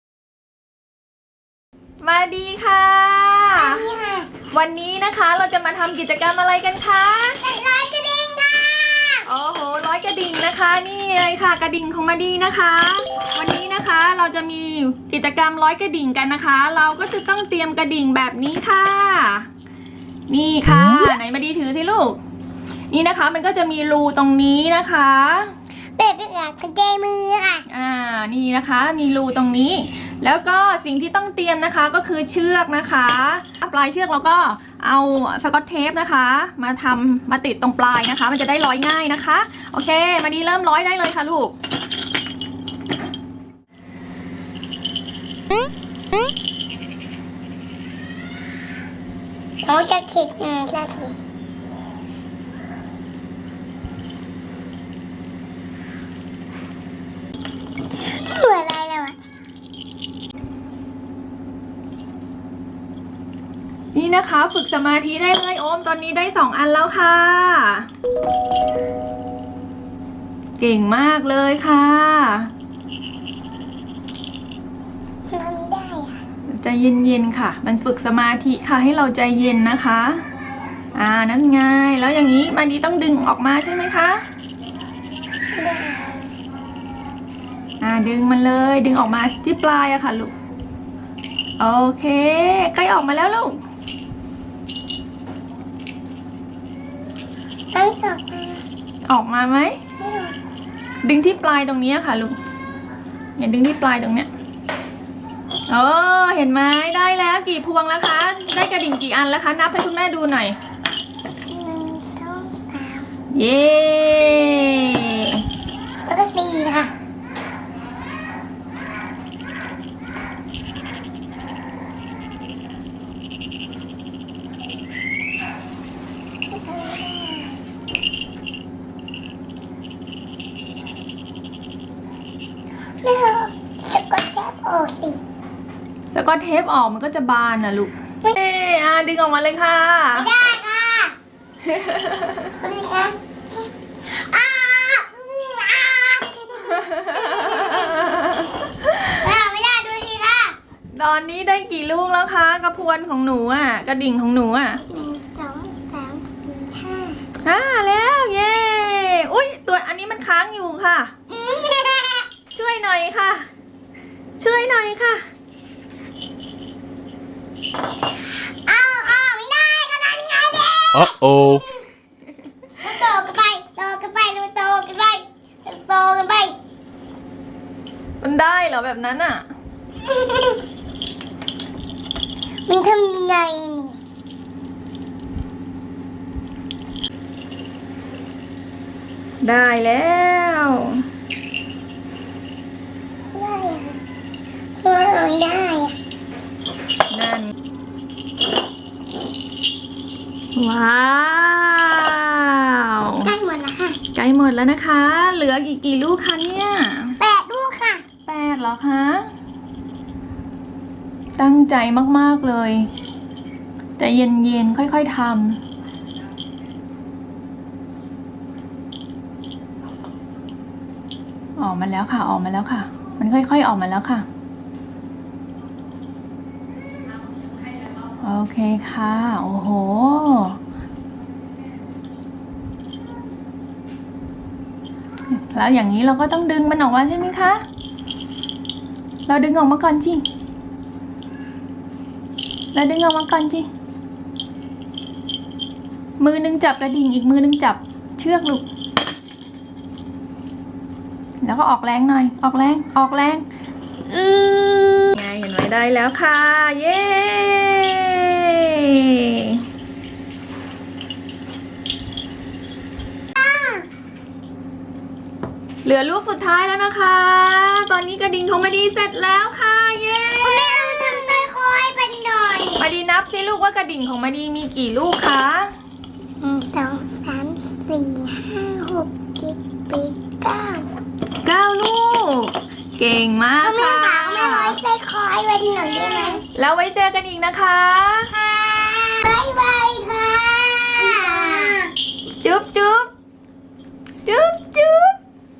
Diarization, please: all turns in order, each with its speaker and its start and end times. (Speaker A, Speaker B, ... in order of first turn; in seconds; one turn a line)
Speaker A: 2.0-3.9
Speaker B: 3.5-4.3
Speaker A: 4.5-7.4
Speaker B: 7.4-9.3
Speaker A: 9.3-19.5
Speaker A: 20.3-22.2
Speaker A: 22.9-25.5
Speaker B: 26.0-27.6
Speaker A: 27.7-41.5
Speaker B: 49.6-51.2
Speaker B: 58.0-59.2
Speaker A: 64.0-67.9
Speaker A: 70.6-72.5
Speaker B: 75.3-76.2
Speaker A: 76.5-80.2
Speaker A: 81.0-84.2
Speaker B: 85.5-86.3
Speaker A: 87.8-90.3
Speaker A: 91.6-93.6
Speaker B: 97.7-98.6
Speaker A: 99.1-99.8
Speaker B: 100.0-100.3
Speaker A: 101.0-102.4
Speaker A: 103.4-104.3
Speaker A: 105.7-110.6
Speaker B: 111.5-113.1
Speaker A: 113.3-115.4
Speaker B: 116.1-116.9
Speaker B: 126.5-127.6
Speaker B: 133.0-135.2
Speaker A: 136.1-140.3
Speaker B: 140.2-141.1
Speaker A: 141.7-142.5
Speaker B: 142.6-143.2
Speaker B: 144.0-148.0
Speaker A: 146.8-149.2
Speaker B: 149.1-150.6
Speaker A: 150.9-154.8
Speaker B: 154.9-157.2
Speaker A: 157.4-161.1
Speaker B: 161.3-162.3
Speaker A: 162.5-163.5
Speaker A: 164.4-165.2
Speaker B: 168.7-171.6
Speaker B: 172.8-176.6
Speaker A: 178.2-179.4
Speaker B: 180.1-180.6
Speaker B: 182.7-184.0
Speaker A: 189.4-191.0
Speaker B: 193.3-194.0
Speaker B: 194.8-195.9
Speaker A: 197.1-197.5
Speaker A: 200.6-203.3
Speaker B: 203.2-204.0
Speaker A: 204.1-207.2
Speaker B: 207.2-208.0
Speaker A: 208.3-209.3
Speaker A: 211.4-212.9
Speaker A: 214.0-215.6
Speaker A: 221.6-224.3
Speaker A: 228.2-230.6
Speaker A: 235.3-237.6
Speaker A: 239.3-240.2
Speaker A: 242.7-243.7
Speaker A: 246.2-248.7
Speaker A: 251.4-253.5
Speaker A: 254.1-259.6
Speaker B: 263.4-263.9
Speaker A: 265.8-271.2
Speaker B: 270.4-272.9
Speaker A: 272.8-275.7
Speaker B: 276.4-280.9
Speaker A: 281.4-284.8
Speaker B: 283.6-286.4
Speaker A: 286.5-288.3
Speaker B: 288.4-291.9
Speaker A: 291.0-291.8
Speaker A: 292.4-293.1
Speaker A: 294.3-295.2